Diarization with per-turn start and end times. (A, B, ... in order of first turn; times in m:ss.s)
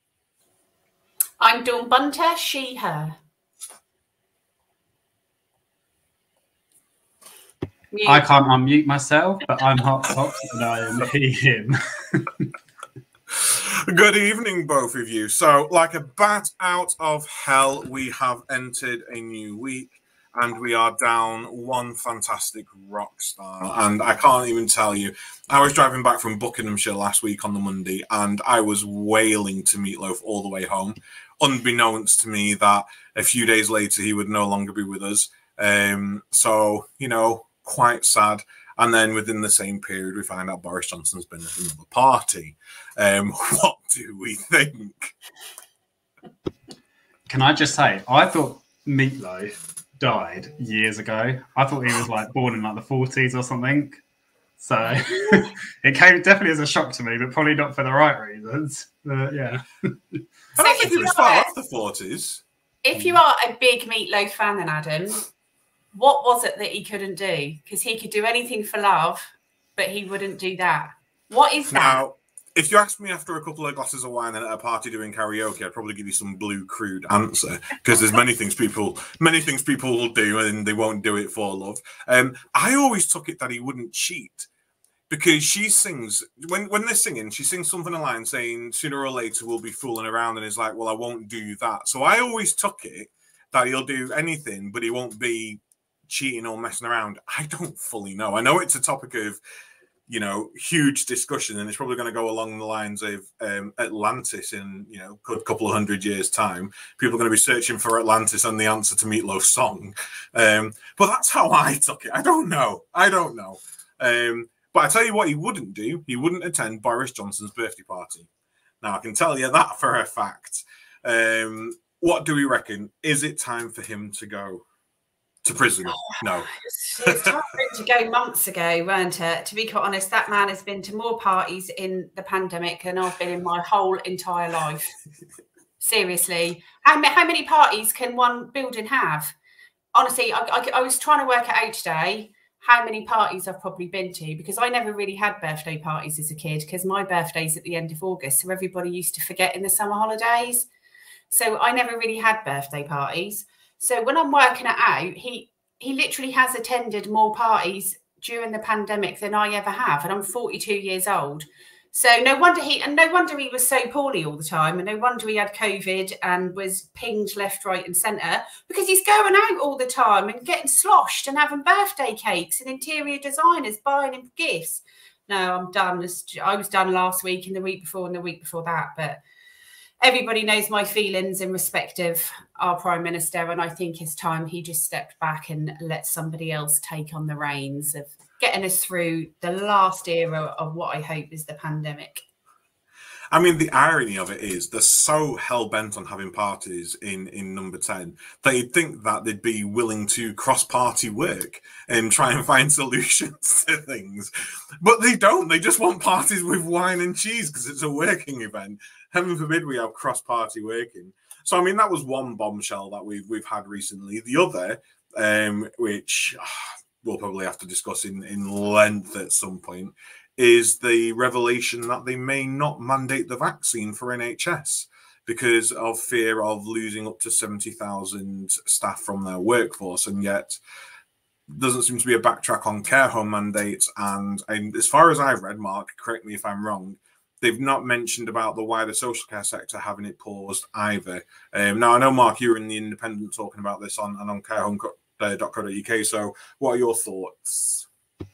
0:01.4-0:03.2 A
0:07.9-0:08.3 A
0:08.0-0:12.5 B
0:13.3-0:45.1 C
0:47.3-0:54.0 B
0:54.6-1:00.2 B
1:00.5-1:02.4 C
1:00.6-1:01.5 A
1:02.8-1:05.2 A
1:02.9-1:03.2 B
1:05.9-1:12.0 A
1:11.7-1:24.5 C
1:25.1-1:39.4 C
1:40.1-1:58.3 C
1:58.8-2:04.6 C
2:05.4-2:06.5 C
2:06.0-2:14.9 A
2:07.0-2:07.4 C
2:15.8-2:19.3 A
2:19.9-2:30.7 A
2:31.3-2:59.2 A
3:00.0-3:12.2 A
3:13.3-3:50.6 C
3:51.5-4:07.9 C